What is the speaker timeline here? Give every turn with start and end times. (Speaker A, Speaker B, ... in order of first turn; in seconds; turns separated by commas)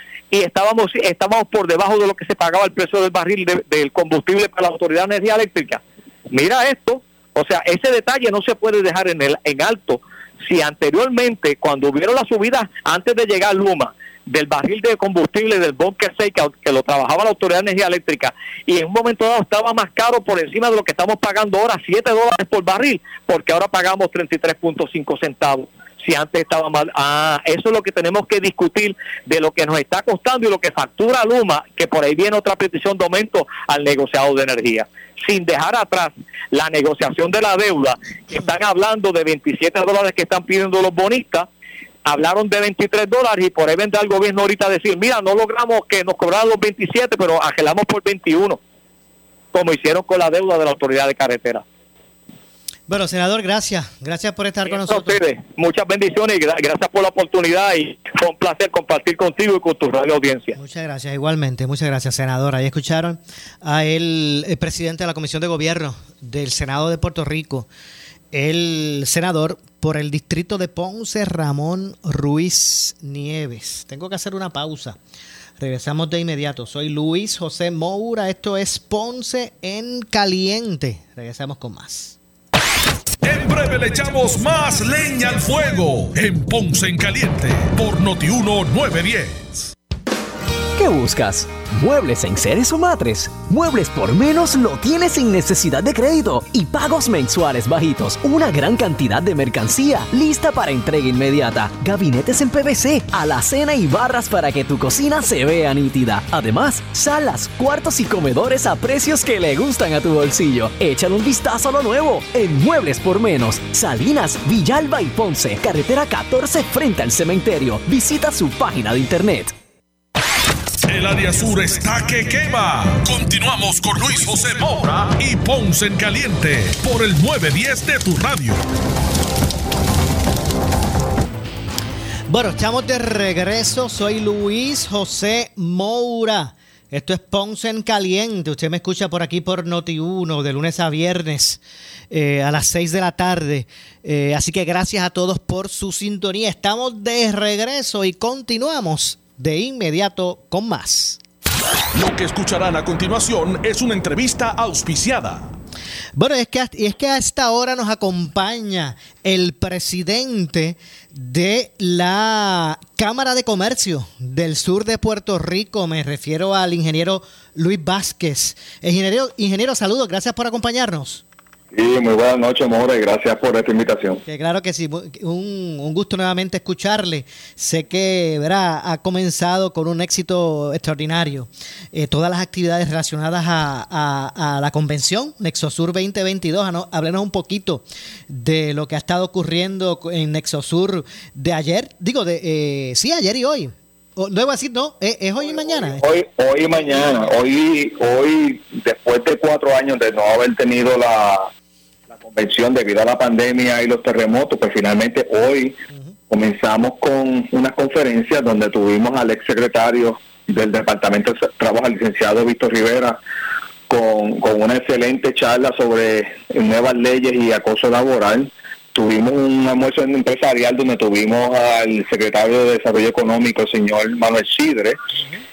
Speaker A: 0.3-41.5, Speaker A: 42.1-48.6, Speaker A: 49.5-51.6, Speaker B: 52.9-55.2, Speaker A: 54.7-60.6, Speaker B: 60.5-67.7, Speaker B: 68.3-75.0, Speaker B: 75.6-82.2, Speaker C: 83.2-89.7, Speaker D: 90.8-119.5, Speaker C: 120.9-128.6, Speaker B: 132.3-151.2, Speaker C: 151.9-155.6, Speaker B: 156.2-171.2, Speaker E: 171.7-174.2, Speaker B: 174.2-196.2, Speaker E: 195.8-201.5, Speaker B: 196.8-197.3, Speaker E: 202.1-213.2, Speaker E: 213.9-225.0